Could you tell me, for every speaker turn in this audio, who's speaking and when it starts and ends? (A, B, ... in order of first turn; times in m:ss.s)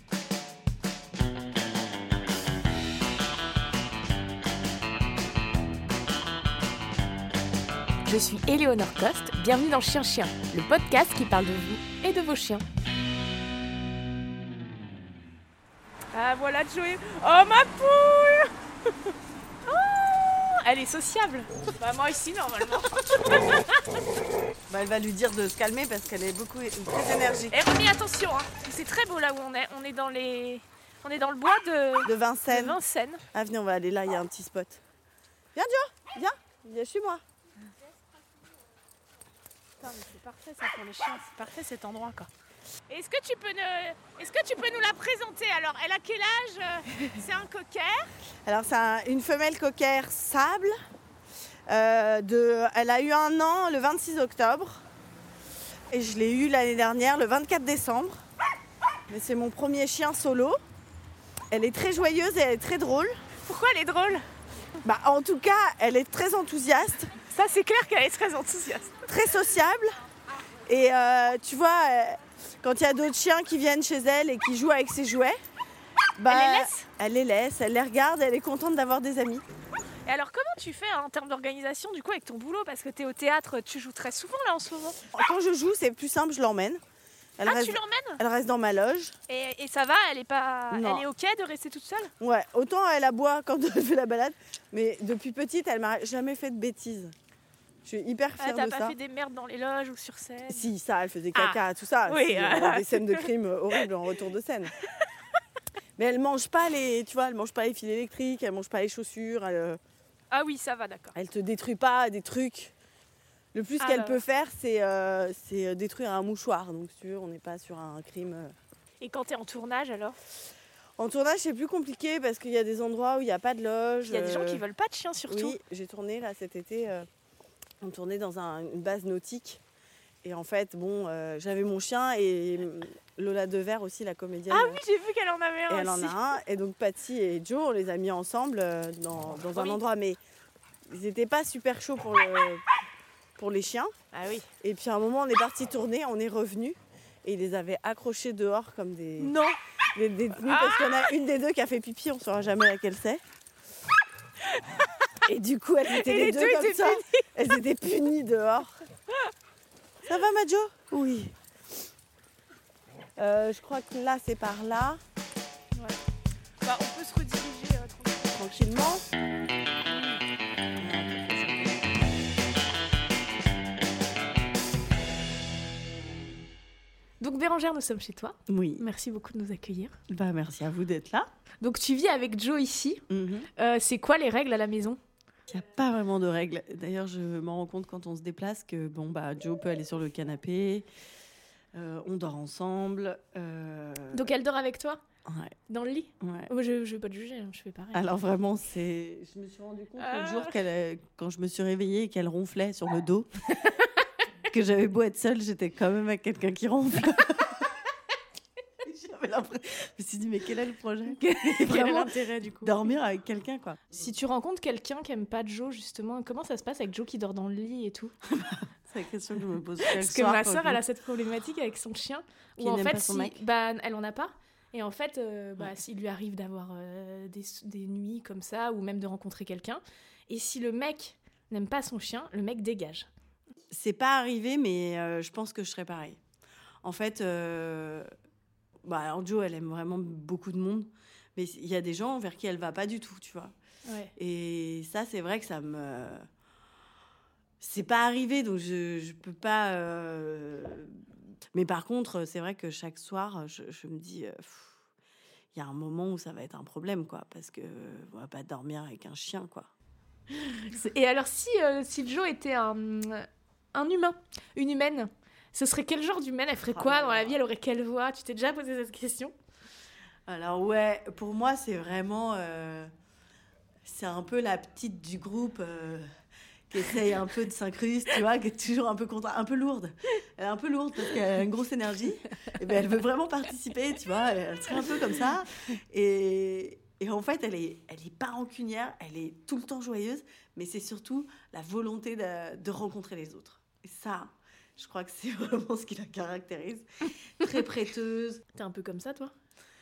0:08.0-0:12.6 A
0:16.1-0:18.5 A
0:19.6-0:23.8 A
0:24.7-0:27.6 B
0:27.5-0:33.2 A
0:32.0-0:32.8 B
0:33.3-0:34.8 B
0:35.5-0:37.2 B
0:39.8-0:42.3 A
0:42.9-0:48.1 A
0:48.4-0:50.7 B
0:51.7-0:54.8 B
0:55.9-0:58.2 B
0:59.1-1:00.6 B
1:01.5-1:03.2 B
1:03.4-1:04.2 A
1:04.8-1:07.1 B
1:07.3-1:09.0 A
1:09.1-1:10.0 B
1:10.6-1:15.4 B
1:16.2-1:19.4 B
1:16.3-1:16.9 A
1:20.0-1:25.0 A
1:25.1-1:26.8 B
1:27.4-1:29.2 B
1:27.4-1:28.2 A
1:29.3-1:32.1 A
1:30.7-1:31.0 B
1:32.2-1:37.1 B
1:37.8-1:39.0 B
1:38.4-1:40.6 A
1:40.5-1:44.7 B
1:41.3-1:43.8 A
1:46.0-1:49.8 B
1:50.3-1:51.1 A
1:51.1-1:52.7 B
1:53.5-1:58.5 B
1:53.8-1:54.2 A
1:59.0-2:00.2 A
2:01.0-2:04.6 B
2:04.1-2:05.6 A
2:05.3-2:07.1 B
2:07.8-2:09.6 B
2:10.2-2:14.8 B
2:14.5-2:16.2 A
2:15.7-2:20.2 B
2:19.5-2:19.8 A
2:20.9-2:22.6 B
2:23.4-2:23.9 B
2:24.1-2:24.5 A
2:24.6-2:29.4 B
2:29.2-2:29.6 A
2:29.9-2:33.2 B
2:30.4-2:31.1 A
2:34.6-2:35.0 A
2:35.2-2:38.8 B
2:35.9-2:37.3 A
2:40.0-2:41.3 B
2:43.2-2:45.0 B
2:45.7-2:46.0 A
2:46.6-2:48.7 A
2:48.3-2:49.0 B
2:49.9-2:50.2 A
2:50.8-2:52.0 B
2:57.2-3:00.0 A
2:58.5-2:58.8 B
3:00.1-3:01.3 B
3:01.6-3:03.0 A
3:03.1-3:03.5 B
3:03.6-3:05.0 A
3:05.5-3:10.8 B
3:11.7-3:14.3 B
3:14.1-3:15.0 A
3:15.2-3:15.5 B
3:15.7-3:18.0 A
3:16.2-3:16.5 B
3:17.9-3:23.3 B
3:20.0-3:20.5 A
3:23.6-3:23.9 A
3:24.5-3:27.7 B
3:28.8-3:32.1 B
3:31.1-3:32.8 A
3:32.6-3:33.9 B
3:33.9-3:38.1 A
3:38.2-3:40.8 B
3:39.8-3:53.1 A
3:42.6-3:43.4 B
3:53.7-3:56.2 B
3:56.8-3:58.1 B
3:58.8-4:03.5 B
4:03.8-4:04.1 A
4:04.2-4:06.2 B
4:07.6-4:14.8 B
4:15.5-4:19.7 B
4:20.3-4:29.3 A
4:26.7-4:27.4 B
4:30.3-4:32.9 B
4:33.8-4:36.0 B
4:36.7-4:56.8 B
4:57.4-4:58.4 B
4:58.5-4:59.3 A